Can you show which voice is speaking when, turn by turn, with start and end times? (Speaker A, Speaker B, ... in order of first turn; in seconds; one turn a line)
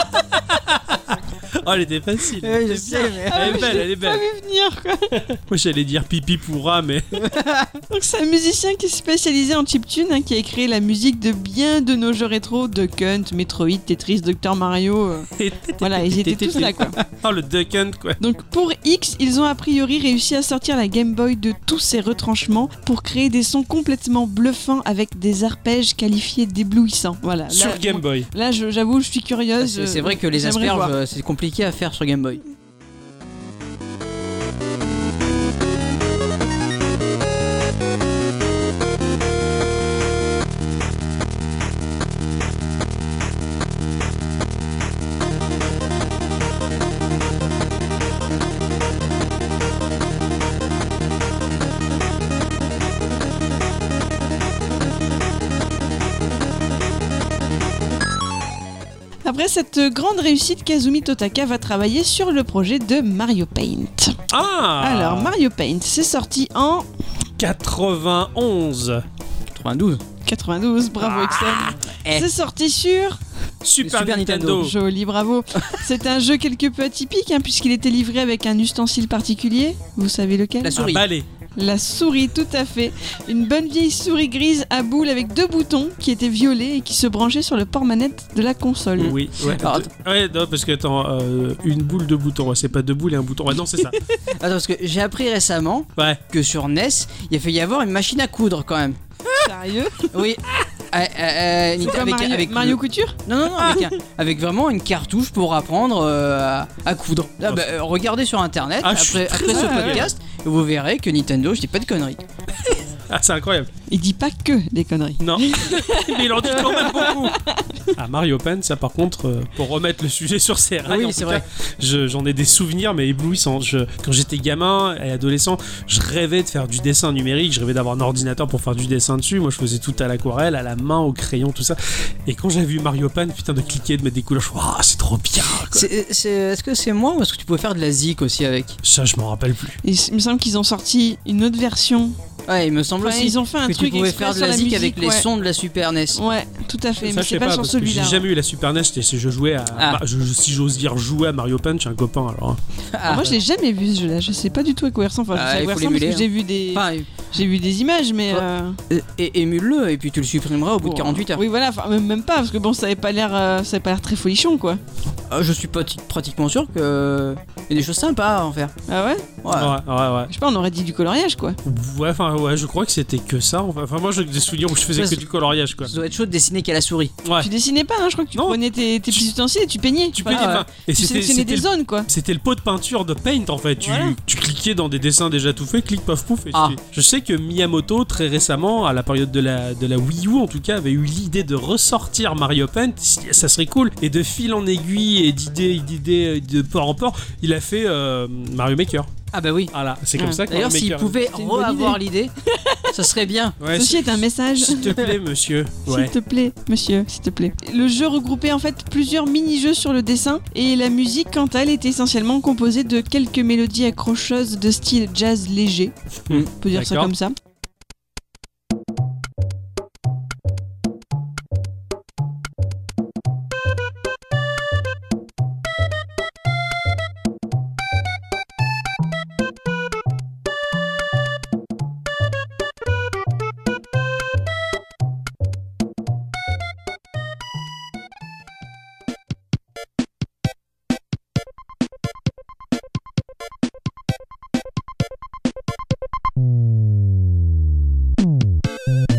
Speaker A: 0.3-4.2
Speaker B: 2.4-3.8
Speaker C: 3.3-5.2
Speaker A: 5.3-7.2
Speaker B: 7.2-7.8
Speaker C: 7.9-15.3
Speaker A: 15.3-18.2
Speaker C: 15.8-17.0
Speaker C: 18.2-30.9
Speaker A: 27.5-28.3
Speaker B: 29.6-32.4
Speaker C: 59.2-64.2
Speaker A: 64.3-65.4
Speaker C: 64.8-66.9
Speaker A: 67.4-69.0
Speaker B: 69.5-70.0
Speaker C: 70.2-73.2
Speaker B: 71.8-72.3
Speaker A: 73.6-74.8
Speaker B: 73.8-74.7
Speaker C: 74.6-80.8
Speaker B: 80.6-81.0
Speaker A: 80.8-81.3
Speaker C: 81.6-89.2
Speaker A: 89.0-94.0
Speaker B: 89.5-89.9
Speaker B: 94.3-99.4
Speaker A: 96.0-96.2
Speaker C: 99.4-100.1
Speaker B: 100.0-112.2
Speaker C: 101.8-103.9
Speaker A: 108.8-110.1
Speaker C: 109.5-110.1
Speaker A: 112.9-113.7
Speaker C: 113.9-117.9
Speaker A: 115.2-117.4
Speaker A: 118.0-135.9
Speaker B: 120.9-121.4
Speaker B: 135.7-138.8
Speaker A: 138.8-139.8
Speaker C: 139.8-142.2
Speaker B: 142.5-146.2
Speaker C: 143.0-145.3
Speaker C: 146.2-148.2
Speaker A: 147.0-152.6
Speaker B: 149.8-150.0
Speaker B: 152.9-153.3
Speaker C: 153.1-158.8
Speaker B: 155.3-157.1
Speaker B: 158.3-161.4
Speaker C: 160.8-164.8
Speaker B: 165.3-168.7
Speaker C: 168.9-169.3
Speaker B: 169.4-169.8
Speaker A: 169.5-170.3
Speaker C: 170.3-171.6
Speaker A: 171.6-176.0
Speaker B: 174.9-175.3
Speaker B: 175.8-177.2
Speaker A: 177.2-177.5
Speaker C: 177.4-182.1
Speaker A: 178.3-179.3
Speaker A: 180.1-199.1
Speaker B: 180.3-180.7
Speaker C: 183.8-184.2
Speaker B: 199.3-199.7
Speaker A: 199.7-201.2
Speaker C: 200.2-200.4
Speaker B: 200.5-202.3
Speaker C: 201.3-202.9
Speaker B: 202.9-203.6
Speaker A: 203.6-206.1
Speaker C: 203.7-205.0
Speaker C: 205.8-215.9
Speaker A: 216.3-217.1
Speaker C: 216.6-217.3